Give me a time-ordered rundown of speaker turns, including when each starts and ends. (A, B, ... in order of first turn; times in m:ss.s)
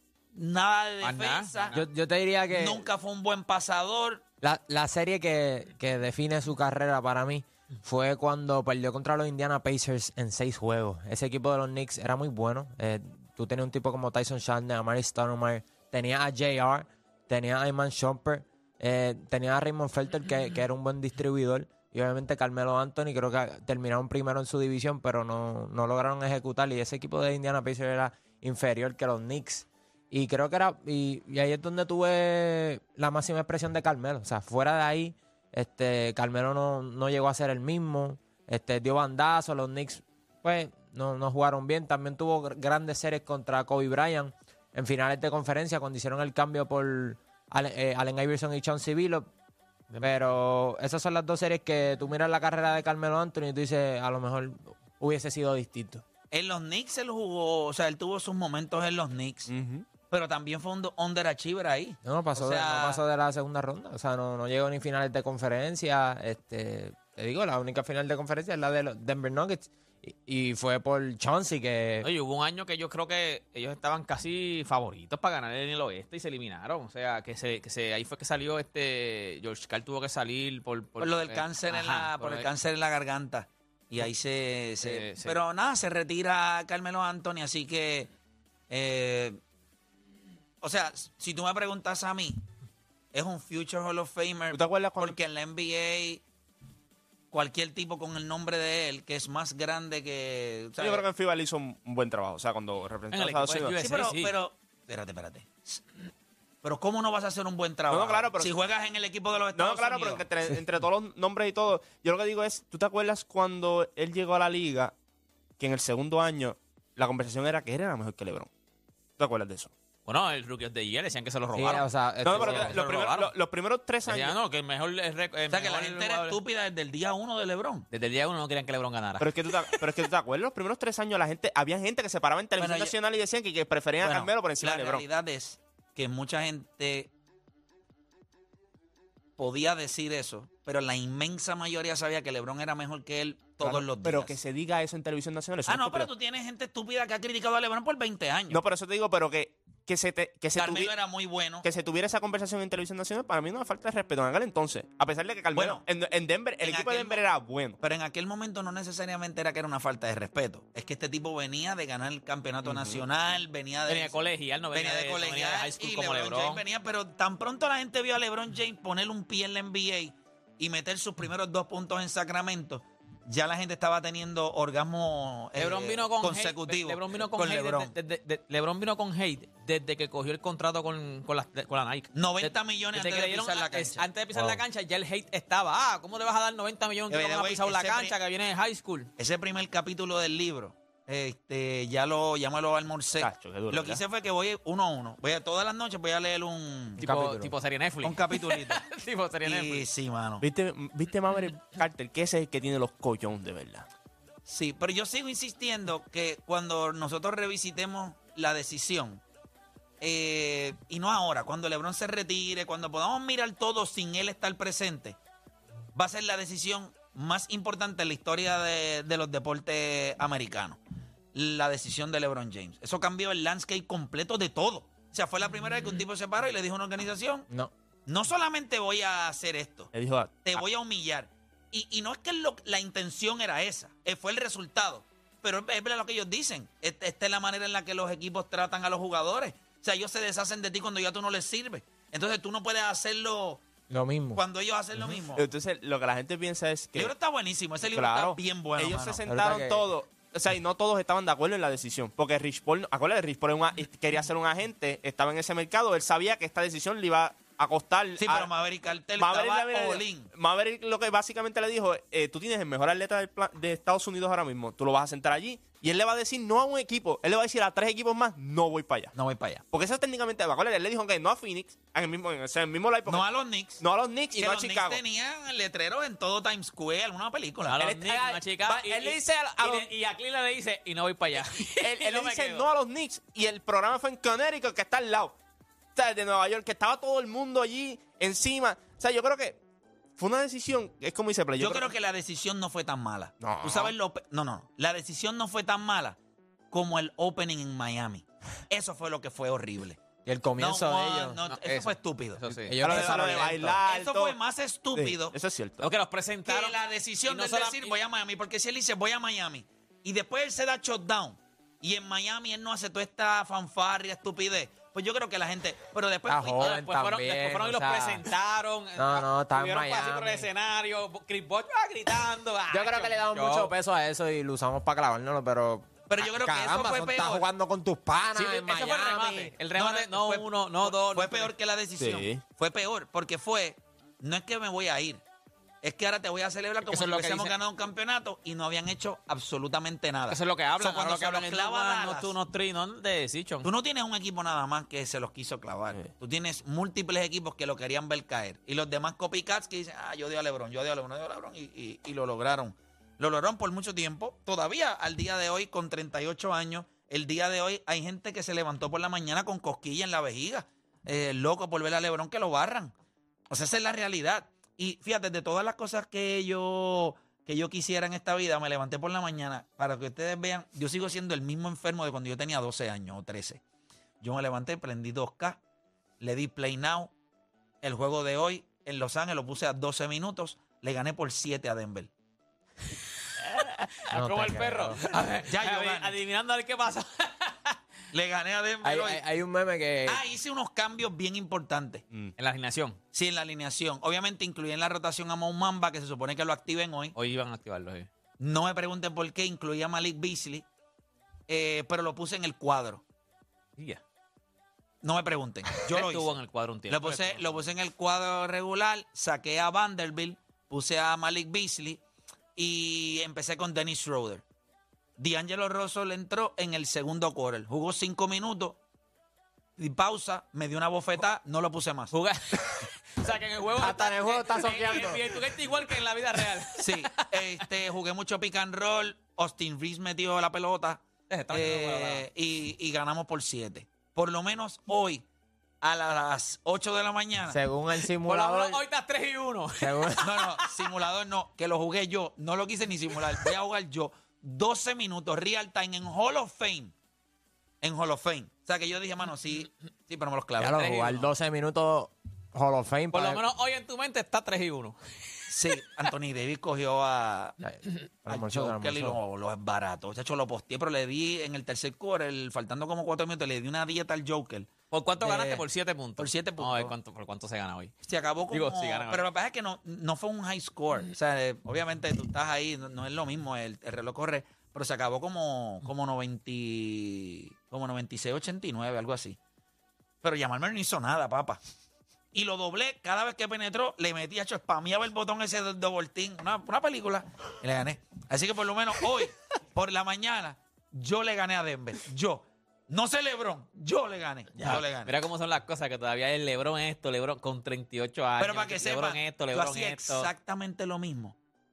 0:00.3-0:01.8 A
0:01.0-0:01.8 B
0:01.7-0:02.8 C
0:02.5-0:04.2 A
0:04.4-0:49.3 C
0:49.9-0:50.2 B
0:50.0-0:56.0 C
0:56.3-0:59.5 A
0:59.5-0:59.9 D
1:00.1-1:03.0 A
1:02.0-1:12.1 C
1:12.0-1:22.5 B
1:21.0-1:28.1 A
1:24.8-1:25.4 B
1:28.7-1:29.4 A
1:30.6-1:32.4 A
1:33.1-1:36.2 A
1:34.5-1:35.2 D
1:37.3-1:41.1 A
1:40.8-1:43.8 D
1:43.1-1:44.4 B
1:43.8-1:45.8 A
1:46.6-1:50.3 A
1:47.9-1:48.5 D
1:49.5-1:55.0 D
1:55.6-1:58.5 D
1:59.2-1:59.7 D
2:00.1-2:03.3 B
2:01.6-2:02.8 C
2:02.2-2:04.4 D
2:02.4-2:02.9 A
2:04.1-2:06.4 B
2:05.5-2:07.9 A
2:07.9-2:09.9 B
2:09.2-2:15.0 D
2:12.6-2:13.0 A
2:14.0-2:17.1 A
2:19.4-2:24.4 A
2:23.6-2:26.1 D
2:25.7-2:28.6 A
2:28.5-2:30.9 D
2:30.6-2:31.6 A
2:31.6-2:37.8 D
2:35.5-2:35.8 A
2:36.6-2:37.3 A
2:37.8-2:57.9 A
2:42.6-2:43.0 D
2:43.9-2:46.6 B
2:55.6-3:09.1 B
3:02.1-3:04.0 A
3:04.4-3:04.6 C
3:07.1-3:08.1 A
3:09.2-3:17.0 A
3:13.2-3:14.0 D
3:17.0-3:17.5 C
3:17.0-3:19.9 B
3:18.0-3:18.8 A
3:19.4-3:20.4 A
3:20.4-3:23.9 D
3:24.5-3:29.2 A
3:30.0-3:35.2 A
3:36.0-3:40.8 A
3:41.3-3:47.5 A
3:48.1-3:49.9 A
3:49.9-3:50.6 D
3:50.4-4:03.7 A
4:03.9-4:04.4 C
4:04.3-4:05.4 A
4:05.1-4:07.1 D
4:07.0-4:09.2 A
4:07.9-4:18.5 D
4:09.3-4:09.8 C
4:18.2-4:20.3 A
4:19.2-4:29.1 D
4:29.2-4:29.6 A
4:29.7-4:35.0 D
4:33.1-4:33.8 A
4:34.3-4:37.9 A
4:37.7-4:42.6 B
4:37.8-4:39.9 D
4:41.8-4:45.4 D
4:46.0-4:49.6 D
4:50.2-4:51.9 D
4:51.6-4:56.2 A
4:53.4-4:53.9 D
4:56.7-5:00.0 A
5:00.2-5:01.4 C
5:00.6-5:02.4 A
5:01.4-5:02.8 B
5:02.5-5:03.8 C
5:02.8-5:04.4 D
5:03.2-5:05.4 A
5:04.9-5:05.9 D
5:05.8-5:08.0 B
5:06.4-5:16.7 A
5:16.3-5:18.2 C
5:16.6-5:23.7 B
5:19.0-5:20.5 C
5:22.7-5:29.5 C
5:26.1-5:27.5 A
5:28.4-5:31.5 B
5:29.7-5:35.2 A
5:32.0-5:32.4 D
5:35.8-5:42.4 A
5:36.9-5:37.5 B
5:40.3-5:43.7 B
5:43.6-6:02.9 A
6:03.5-6:13.6 A
6:14.2-6:15.6 A
6:16.2-6:17.1 A
6:17.8-6:22.1 A
6:23.4-6:27.8 B
6:24.1-6:25.1 C
6:25.5-6:26.1 A
6:28.1-6:29.2 A
6:28.8-6:30.2 C
6:30.0-6:32.0 A
6:32.4-6:33.0 B
6:33.1-6:37.1 A
6:37.2-6:38.1 B
6:38.4-6:40.7 A
6:41.5-6:43.0 A
6:45.0-6:46.3 A
6:45.8-6:47.5 B
6:46.9-6:52.0 A
6:52.6-6:54.4 A
6:55.2-6:58.8 A
6:59.8-7:02.1 A
7:02.1-7:07.6 B
7:03.8-7:05.6 C
7:06.8-7:15.2 A
7:11.3-7:12.3 B
7:15.8-7:17.6 A
7:17.5-7:18.8 C
7:18.1-7:20.9 B
7:19.8-7:20.2 C
7:20.2-7:26.9 A
7:27.8-7:31.1 A
7:30.6-7:33.4 C
7:30.8-7:31.2 B
7:33.1-7:35.5 B
7:35.5-7:37.6 A
7:37.6-7:39.2 C
7:38.3-7:44.7 A
7:44.9-7:47.9 B
7:45.2-7:45.6 C
7:46.2-7:46.9 A
7:48.0-7:59.4 A
7:48.5-7:49.2 B
8:00.2-8:01.6 A
8:02.3-8:15.1 A
8:14.6-8:20.3 B
8:18.4-8:21.4 A